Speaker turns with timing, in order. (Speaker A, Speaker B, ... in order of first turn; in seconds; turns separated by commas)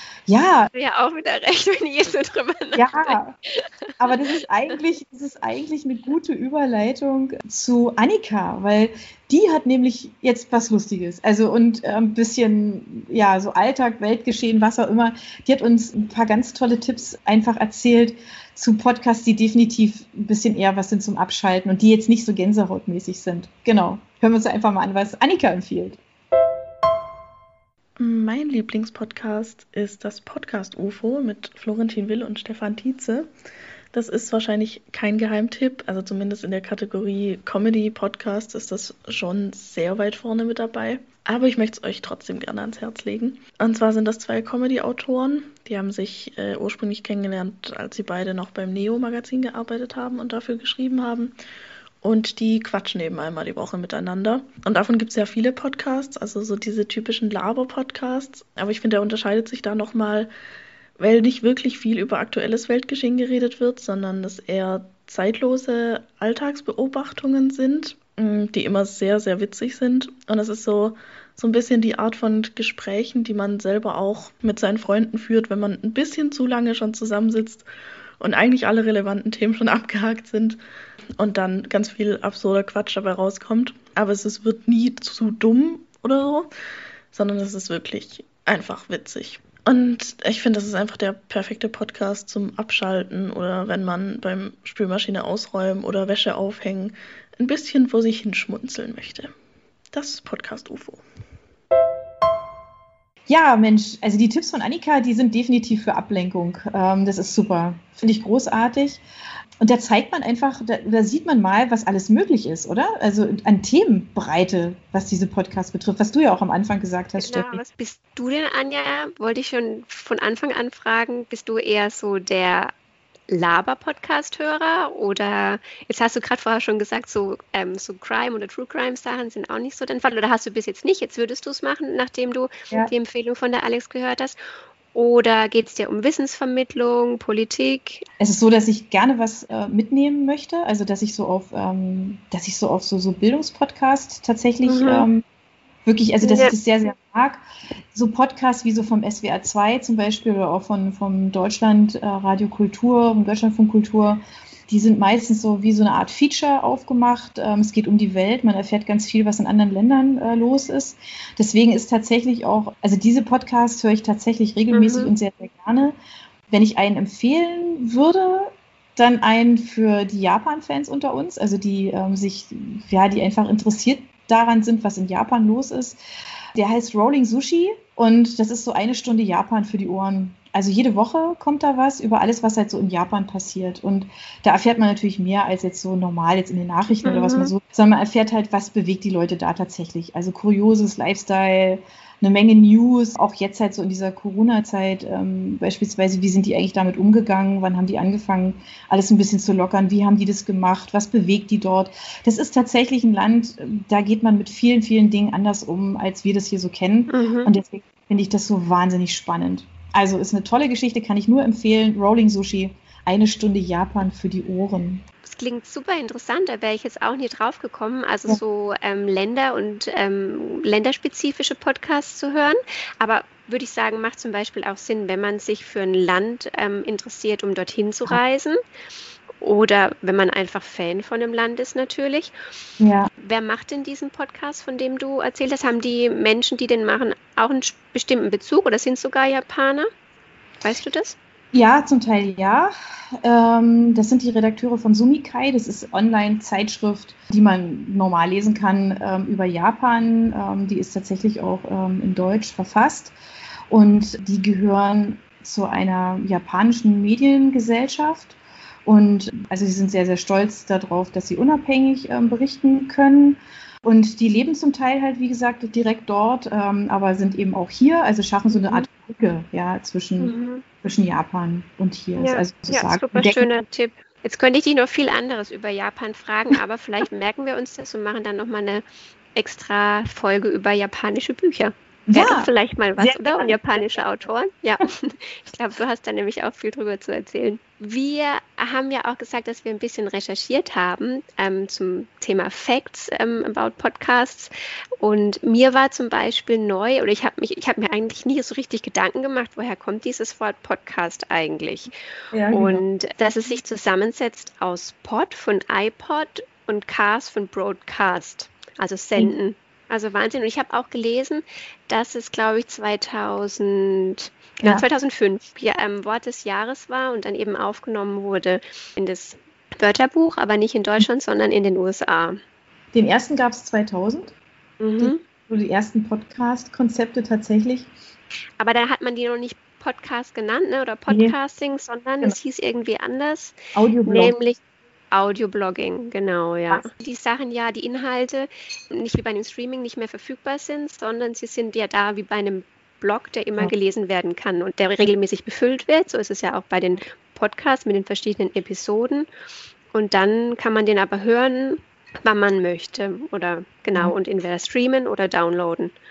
Speaker A: 0.3-0.7, Speaker B: 0.7-4.1, Speaker A: 2.8-3.3, Speaker A: 4.0-26.0, Speaker C: 28.0-33.3, Speaker C: 33.9-51.3, Speaker C: 52.0-60.3, Speaker C: 61.0-77.7, Speaker C: 78.2-80.6, Speaker C: 81.2-86.5, Speaker C: 87.1-99.3, Speaker C: 99.9-101.0, Speaker A: 103.3-109.0, Speaker A: 109.6-117.6, Speaker B: 117.2-122.7, Speaker B: 123.3-134.4, Speaker B: 134.9-138.0, Speaker A: 138.2-145.2, Speaker B: 144.7-145.1, Speaker A: 145.8-165.9, Speaker B: 146.2-146.5, Speaker B: 164.7-165.1, Speaker A: 166.5-176.0, Speaker A: 176.5-215.0, Speaker B: 187.0-187.5, Speaker B: 207.1-207.5, Speaker B: 215.2-228.6, Speaker B: 229.4-232.3, Speaker A: 232.8-233.1, Speaker B: 233.2-239.9, Speaker B: 240.6-241.2, Speaker A: 241.5-253.1, Speaker A: 253.7-273.5, Speaker B: 268.5-268.9, Speaker B: 270.2-270.6, Speaker B: 272.2-278.8, Speaker B: 279.3-301.9, Speaker A: 282.1-284.0, Speaker A: 302.3-302.8, Speaker B: 302.5-322.4, Speaker A: 322.9-324.3, Speaker B: 324.8-325.2, Speaker A: 325.0-327.9, Speaker B: 328.6-333.5, Speaker A: 331.1-331.4, Speaker A: 333.7-334.3, Speaker B: 334.1-334.6, Speaker B: 335.1-349.3, Speaker B: 349.9-355.9